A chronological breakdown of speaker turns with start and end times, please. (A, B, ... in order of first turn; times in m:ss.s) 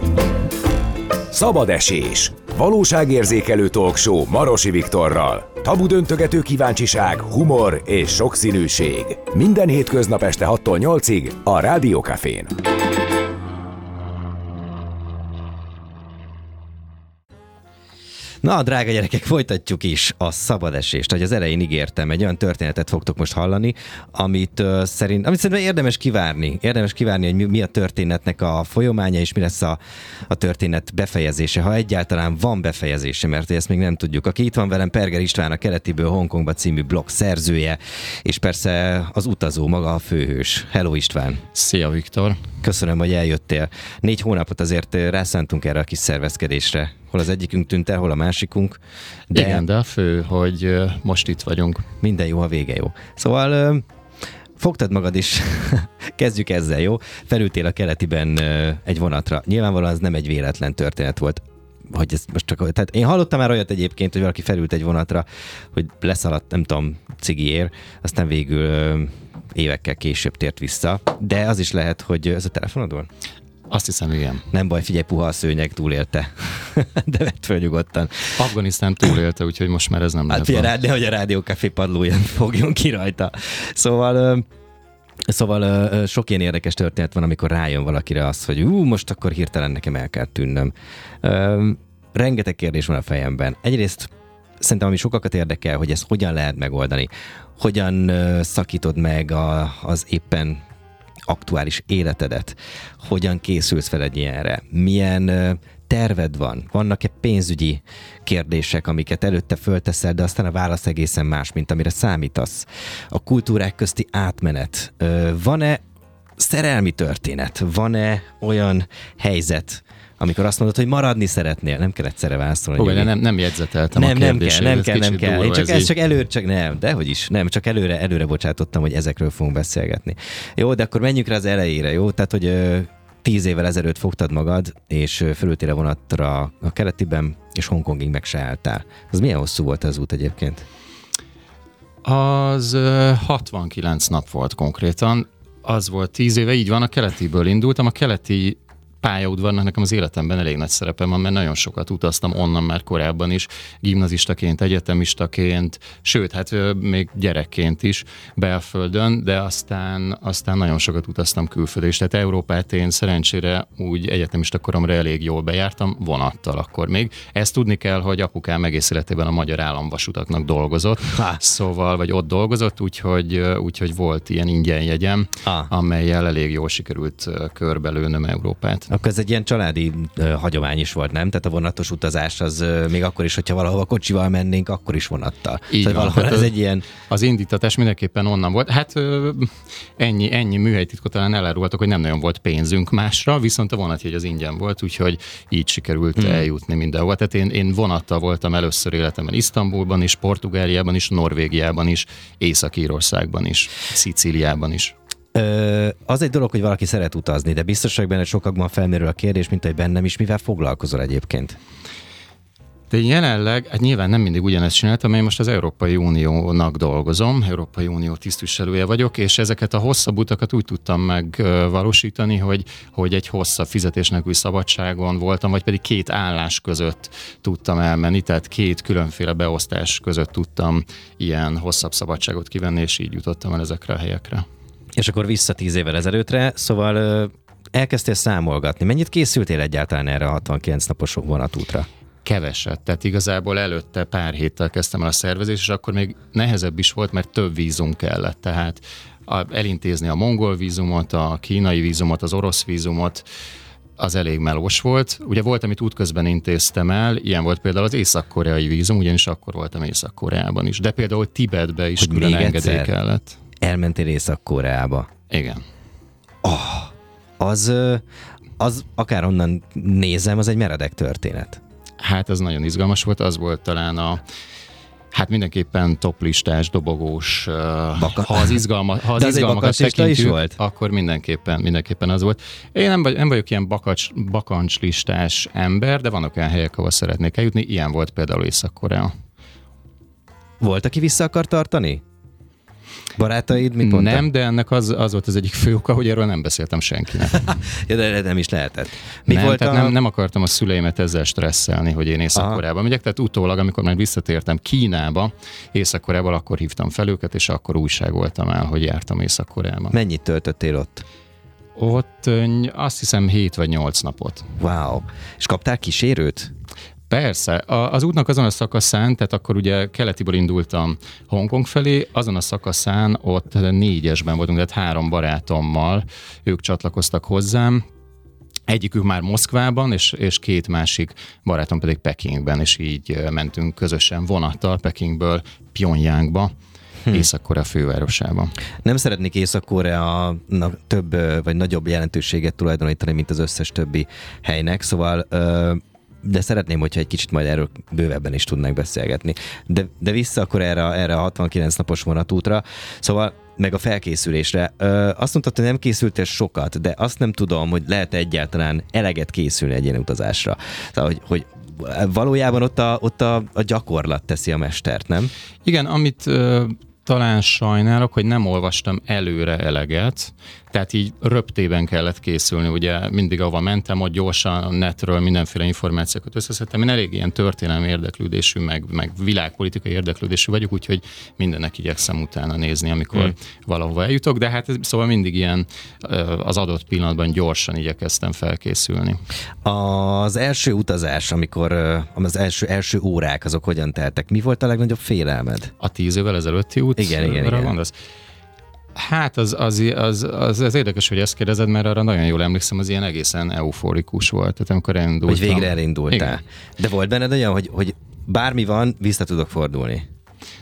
0:01.3-0:12.5 A
0:18.4-0:41.4 B
0:41.5-0:42.4 C
0:42.6-0:48.8 B
0:49.3-0:49.6 B
0:49.3-0:51.9 C
0:52.0-0:53.8 B
0:54.6-1:13.1 B
1:13.7-1:14.4 C
1:14.5-1:18.4 B
1:18.4-1:20.7 C
1:20.3-1:24.4 B
1:25.3-1:40.6 B
1:41.3-1:55.8 B
1:56.4-2:03.1 B
2:02.8-2:05.9 C
2:03.9-2:20.6 B
2:22.0-2:58.9 C
2:51.1-2:51.4 B
2:58.9-3:06.8 B
3:05.7-3:24.9 C
3:16.2-3:16.4 B
3:25.3-3:31.6 B
3:32.9-3:54.4 C
3:55.0-4:01.9 B
4:02.2-4:13.2 C
4:14.0-4:23.4 C
4:22.0-4:22.9 B
4:23.6-4:25.1 B
4:25.3-4:25.6 C
4:26.4-4:28.0 B
4:28.6-4:31.6 B
4:32.0-4:34.2 C
4:35.1-4:49.1 C
4:38.0-4:38.6 B
4:39.2-4:40.6 B
4:50.6-4:52.0 B
4:53.2-4:54.2 B
4:53.8-4:57.6 C
4:57.3-4:59.9 B
4:59.3-5:09.9 C
5:02.3-5:02.6 B
5:09.9-5:11.0 B
5:11.8-5:14.5 C
5:14.6-5:16.5 B
5:17.1-5:27.8 C
5:28.7-5:36.5 C
5:37.1-5:38.5 C
5:38.8-6:05.3 B
6:05.6-6:29.2 C
6:29.6-6:35.7 B
6:35.8-6:37.9 C
6:37.0-6:37.7 B
6:38.9-6:46.4 C
6:45.2-6:50.0 B